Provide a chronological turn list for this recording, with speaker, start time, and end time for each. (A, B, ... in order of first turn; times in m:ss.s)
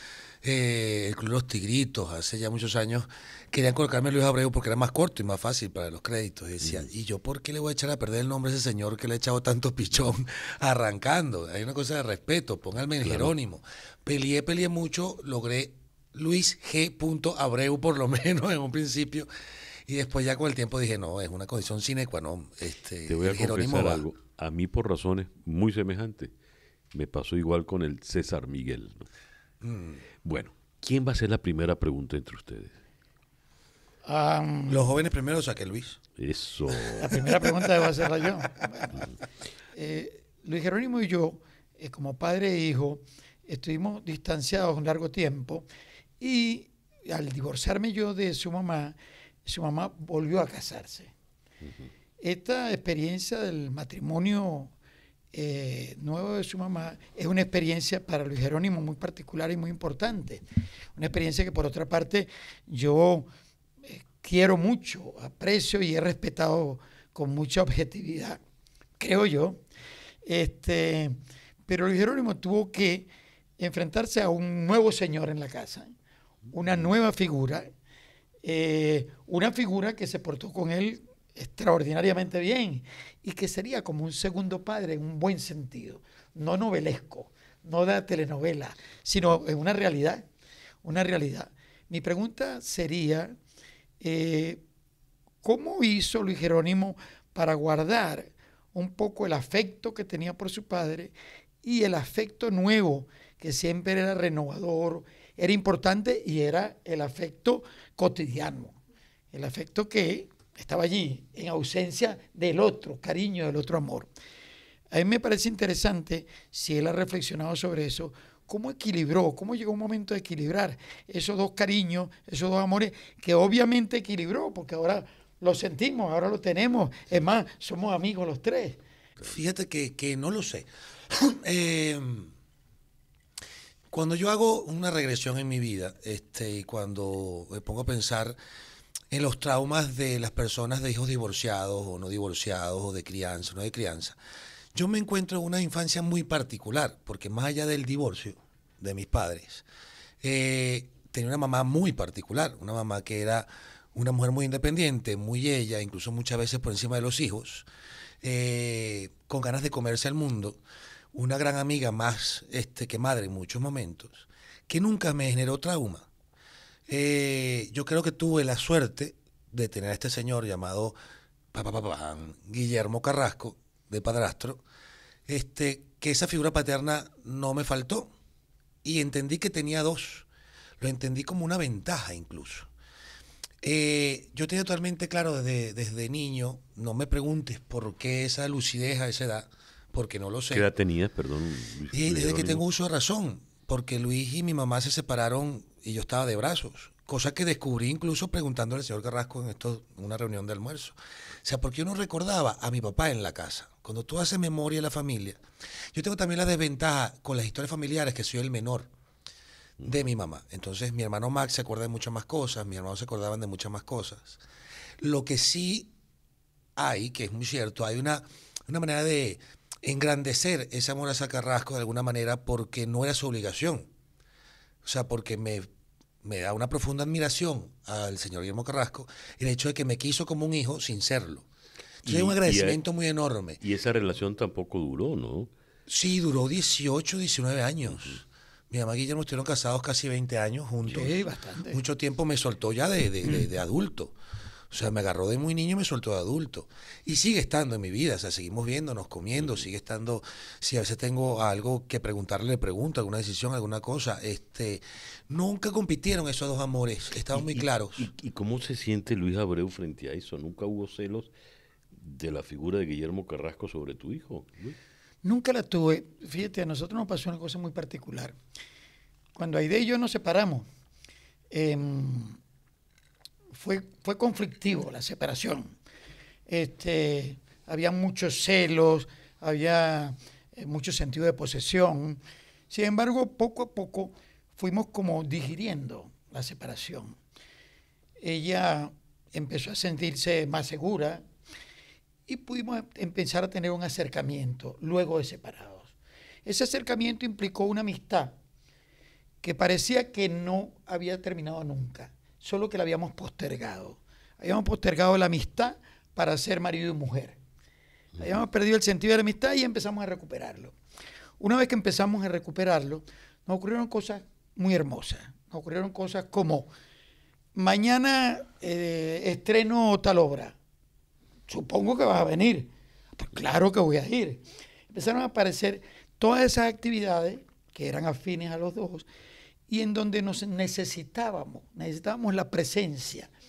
0:00.4-0:19.3 A
0:13.0-0:13.3 B
0:19.8-0:24.0 A
0:23.1-0:26.3 B
0:26.9-0:29.1 B
0:29.6-0:30.0 A
0:30.2-0:32.8 B
0:34.0-0:34.9 C
0:34.7-0:36.0 A
0:36.2-0:37.2 B
0:37.0-0:39.1 C
0:37.1-0:37.7 A
0:39.7-0:45.7 C
0:46.2-0:51.1 C
0:51.6-0:51.9 B
0:52.2-0:54.7 C
0:55.3-1:00.4 C
1:01.0-1:03.3 C
1:03.8-1:08.4 C
1:09.0-1:09.6 C
1:10.2-1:13.1 C
1:13.6-1:15.9 C
1:16.5-1:17.7 C
1:18.4-1:30.2 C
1:30.8-1:33.3 C
1:34.0-1:34.6 C
1:35.4-1:48.8 C
1:49.3-1:54.1 C
1:54.9-2:08.8 C
2:09.2-2:12.3 A
2:13.9-2:18.4 A
2:19.1-2:24.2 A
2:24.7-2:29.6 A
2:30.2-2:37.7 A
2:38.2-2:40.6 A
2:41.1-2:46.1 A
2:46.9-2:51.0 A
2:51.5-2:54.6 A
2:55.3-2:58.1 A
2:58.8-3:00.3 A
3:00.8-3:02.7 A
3:03.6-3:10.6 A
3:10.5-3:12.6 B
3:11.9-3:25.4 A
3:25.9-3:28.9 A
3:29.8-3:34.4 A
3:35.0-3:35.9 A
3:36.8-3:43.9 A
3:44.8-3:45.7 A
3:46.2-3:51.4 A
3:52.0-3:52.8 B
3:52.0-3:53.6 A
3:53.6-3:55.5 B
3:55.9-4:04.1 A
4:00.9-4:01.8 C
4:04.7-4:18.1 A
4:17.3-4:21.3 B
4:21.9-4:24.8 B
4:25.2-4:28.4 C
4:29.3-4:30.6 C
4:31.5-4:32.4 C
4:33.5-4:35.8 C
4:36.5-4:47.2 C
4:48.2-4:51.2 C
4:52.3-4:55.9 C
4:56.4-4:58.4 C
4:59.4-5:07.4 C
5:08.2-5:10.7 C
5:11.4-5:16.7 C
5:17.5-5:20.5 C
5:21.5-5:29.0 C
5:29.7-5:33.3 C